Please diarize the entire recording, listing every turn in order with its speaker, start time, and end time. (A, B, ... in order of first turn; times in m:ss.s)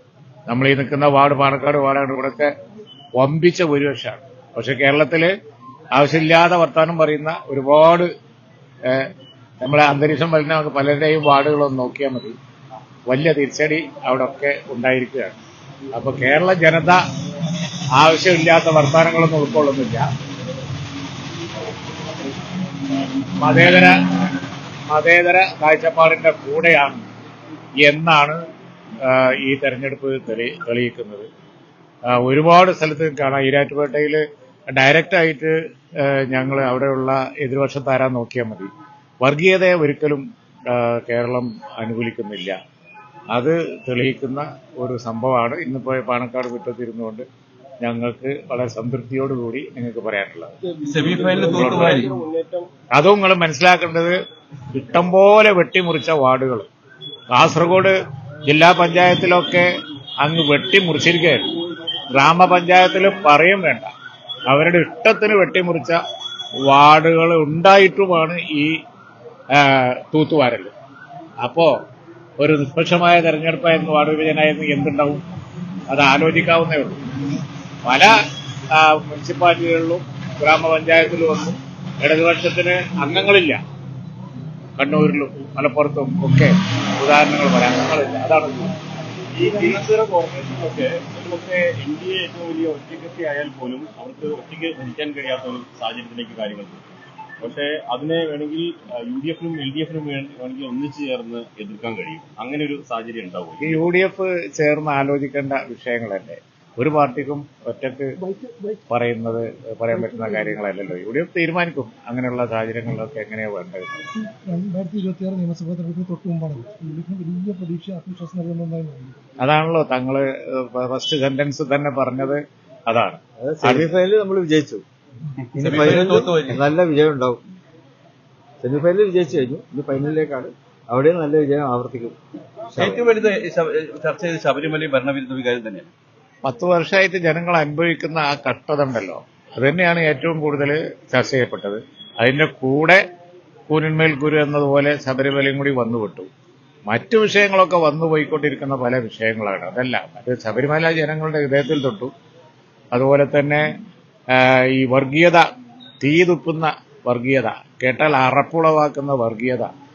0:00.5-0:02.5 A
0:03.2-0:05.3 A
0:05.9-0:08.1 A
0:09.6-0:12.3 A
0:13.1-0:15.3 A
0:15.9-0:17.0 A
0:18.0-0:20.0 A
0:23.4-0:23.9 A
0:24.9-0:27.0 A
0:27.8-0:28.4 A
0:29.0-0:31.2 A
0:32.1-0:34.2 A
0:34.7-0:35.5 A
0:36.1-0:38.7 A
0:39.2-0:42.6 A
0:43.3-0:47.2 A
0:47.8-0:50.5 A
0:50.8-0:52.2 B
0:51.5-0:52.0 A
0:52.9-0:54.1 A
0:54.7-0:56.6 A
0:57.3-0:57.9 A
0:58.4-0:59.7 A
1:00.2-1:01.4 A
1:02.1-1:03.9 A
1:04.5-1:06.0 A
1:06.7-1:08.7 A
1:09.6-1:10.7 A
1:11.4-1:11.7 A
1:12.4-1:15.2 A
1:15.9-1:17.0 A
1:17.8-1:18.1 A
1:18.7-1:23.6 A
1:24.8-1:28.7 A
1:29.3-1:36.8 C
1:37.4-1:43.8 C
1:43.6-1:48.1 A
1:48.9-1:54.0 A
1:54.1-1:59.2 D
1:59.4-2:03.8 A
2:03.4-2:04.8 E
2:05.6-2:07.4 E
2:05.6-2:06.6 B
2:08.6-2:12.1 E
2:12.7-2:13.1 E
2:12.8-2:15.9 B
2:16.4-2:23.0 A
2:23.7-2:26.3 A
2:26.9-2:32.1 A
2:32.9-2:33.6 A
2:34.4-2:35.4 A
2:36.0-2:39.7 A